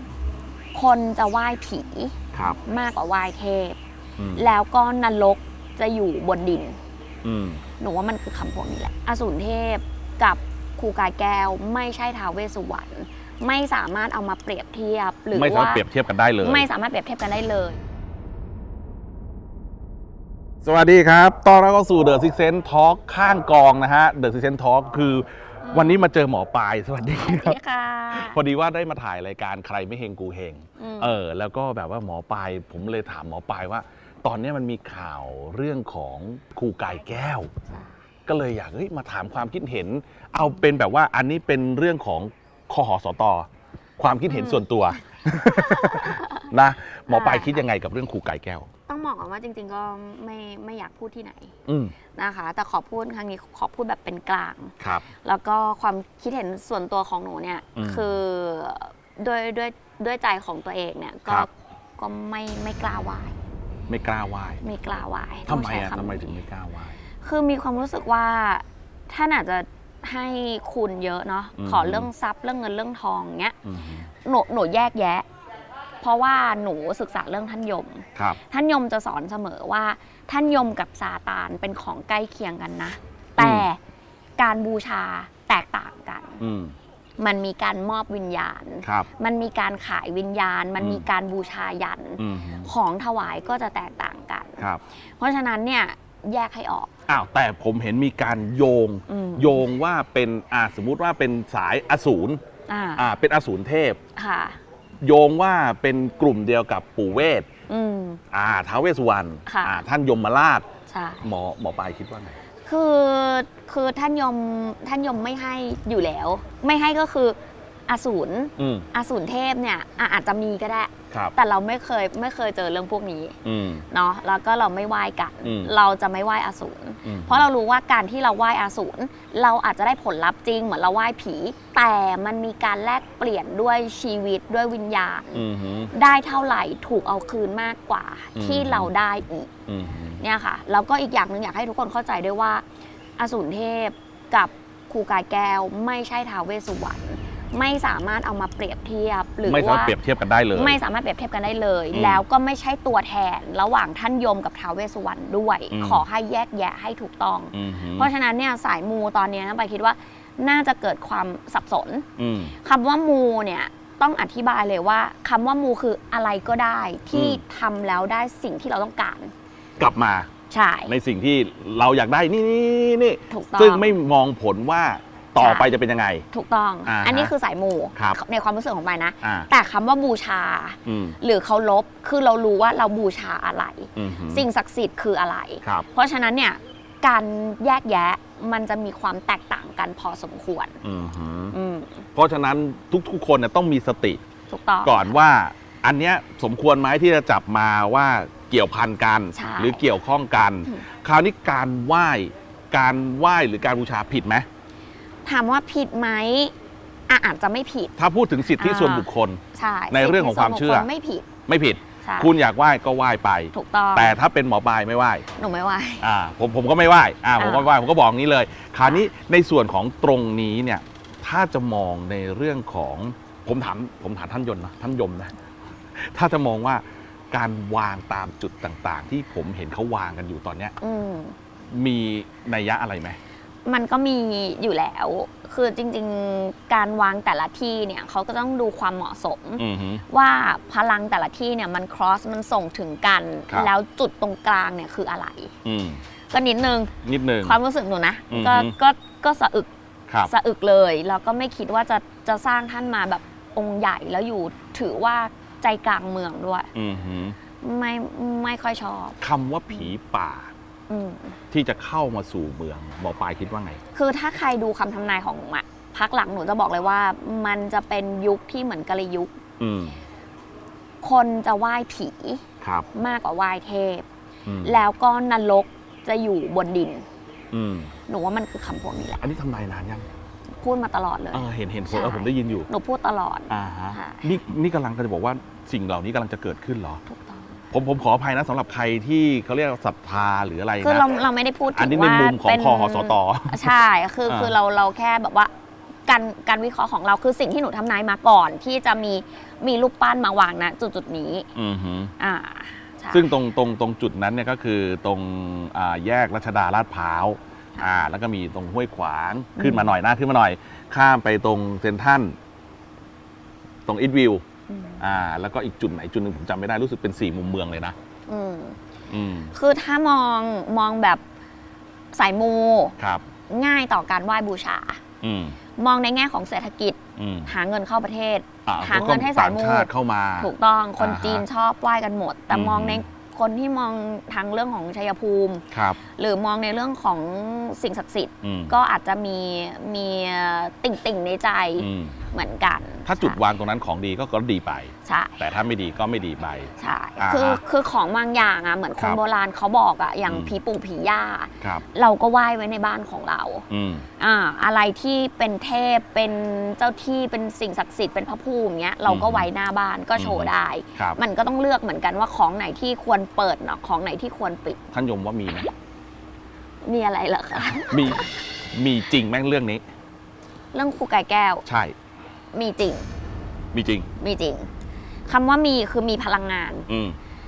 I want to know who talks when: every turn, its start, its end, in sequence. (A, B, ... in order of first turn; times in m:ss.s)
0:00.7-0:03.8 A
0:02.3-0:02.6 B
0:04.2-0:04.5 B
0:04.3-0:06.8 A
0:07.2-0:07.6 B
0:07.8-0:15.8 A
0:15.3-0:16.7 B
0:16.4-0:17.8 A
0:20.6-0:27.6 B
0:25.6-0:26.0 A
0:27.2-0:28.4 A
0:28.1-0:37.5 B
0:30.8-0:31.2 A
0:38.3-0:48.7 B
0:44.3-0:44.7 A
0:45.5-0:46.5 A
0:47.1-0:47.6 A
0:48.9-0:51.5 A
0:51.7-0:51.9 B
0:52.1-1:03.3 A
0:54.8-0:55.0 B
0:57.8-0:58.2 B
1:03.9-1:04.6 B
1:04.6-1:06.4 A
1:05.5-1:07.0 B
1:07.2-1:13.6 A
1:11.6-1:12.1 B
1:13.6-1:14.1 B
1:14.2-1:15.2 A
1:16.0-1:23.8 A
1:23.4-1:23.7 B
1:24.4-1:26.4 A
1:26.4-1:26.7 B
1:27.2-1:36.9 A
1:28.8-1:29.1 B
1:30.8-1:31.0 B
1:32.2-1:32.7 B
1:37.1-1:42.4 B
1:39.1-1:39.6 A
1:42.7-1:43.0 A
1:43.0-1:44.0 B
1:44.2-1:44.6 A
1:45.0-1:47.5 B
1:47.7-1:48.2 A
1:48.3-1:50.7 B
1:49.5-1:49.8 A
1:50.9-1:51.3 A
1:51.2-1:52.4 B
1:52.6-1:57.4 A
1:57.9-2:03.4 A
1:58.6-1:58.9 B
2:03.4-2:03.8 B
2:03.9-2:19.5 A
2:05.4-2:05.7 B
2:07.0-2:07.4 B
2:15.3-2:15.9 B
2:18.3-2:18.9 B
2:19.7-2:20.2 B
2:20.2-2:22.6 A
2:23.2-2:29.9 A
2:29.4-2:30.8 B
2:30.5-2:49.3 A
2:31.9-2:32.2 B
2:35.7-2:36.0 B
2:37.5-2:38.1 B
2:42.2-2:42.6 B
2:47.1-2:47.4 B
2:49.8-2:50.3 B
2:50.5-2:50.9 A
2:50.9-2:56.2 B
2:53.3-2:53.9 A
2:55.4-2:55.7 A
2:56.3-3:10.8 A
2:56.8-2:57.3 B
2:59.2-2:59.5 B
3:00.8-3:01.2 B
3:04.0-3:04.4 B
3:10.8-3:11.6 B
3:11.5-3:12.1 A
3:12.1-3:14.2 B
3:14.5-3:15.1 A
3:14.8-3:24.4 B
3:19.3-3:19.8 A
3:25.2-3:26.5 A
3:27.1-3:27.9 A
3:28.0-3:30.9 B
3:28.6-3:31.3 A
3:31.5-3:35.2 B
3:32.0-3:32.3 A
3:33.5-3:34.2 A
3:35.4-3:36.0 A
3:36.0-3:45.3 B
3:37.4-3:37.7 A
3:45.9-3:50.8 B
3:50.8-3:51.4 A
3:51.7-3:53.2 B
3:53.6-4:05.5 A
3:59.6-4:00.0 B
4:05.6-4:06.0 B
4:06.3-4:09.7 A
4:07.0-4:07.6 B
4:08.3-4:08.7 B
4:10.2-4:16.7 A
4:16.7-4:17.4 B
4:17.6-4:19.2 A
4:19.2-4:20.5 B
4:20.9-4:21.4 A
4:21.5-4:23.8 B
4:23.9-4:29.4 A
4:29.6-4:30.0 B
4:31.0-4:32.4 A
4:32.6-4:32.9 B
4:32.9-4:34.0 A
4:34.4-4:34.8 B
4:34.6-4:37.0 A
4:37.5-4:37.9 B
4:38.1-4:39.2 A
4:39.2-4:40.1 B
4:40.6-4:44.3 A
4:41.3-4:42.7 B
4:43.5-4:47.0 B
4:47.1-4:47.6 A
4:47.7-4:51.2 B
4:50.8-4:55.5 A
4:51.7-4:53.7 B
4:54.3-4:54.5 B
4:56.1-5:01.5 A
5:01.5-5:02.1 B
5:02.2-5:03.3 A
5:03.1-5:12.4 B
5:07.8-5:08.0 A
5:09.6-5:09.9 A
5:13.9-5:14.4 B
5:14.7-5:15.0 A
5:15.0-5:17.9 B
5:18.3-5:18.8 A
5:19.1-5:19.5 B
5:19.5-5:21.2 A
5:22.1-5:23.0 A
5:23.5-5:25.0 A
5:25.2-5:25.6 B
5:25.8-5:43.4 A
5:27.2-5:27.5 B
5:28.6-5:31.4 B
5:32.5-5:33.0 B
5:35.7-5:36.0 B
5:38.4-5:38.7 B
5:41.8-5:42.2 B
5:43.0-5:47.6 B
5:45.0-5:45.4 A
5:46.8-5:53.6 A
5:50.3-5:50.5 B
5:53.7-5:54.0 B
5:54.2-6:04.8 A
5:59.0-5:59.5 B
6:00.2-6:01.2 B
6:04.9-6:05.7 B
6:06.8-6:08.3 A
6:07.7-6:09.8 B
6:10.7-6:11.6 A
6:11.6-6:11.9 B
6:12.5-6:13.1 A
6:13.7-6:14.1 B
6:14.2-6:14.7 A
6:15.3-6:16.9 A
6:16.9-6:17.2 B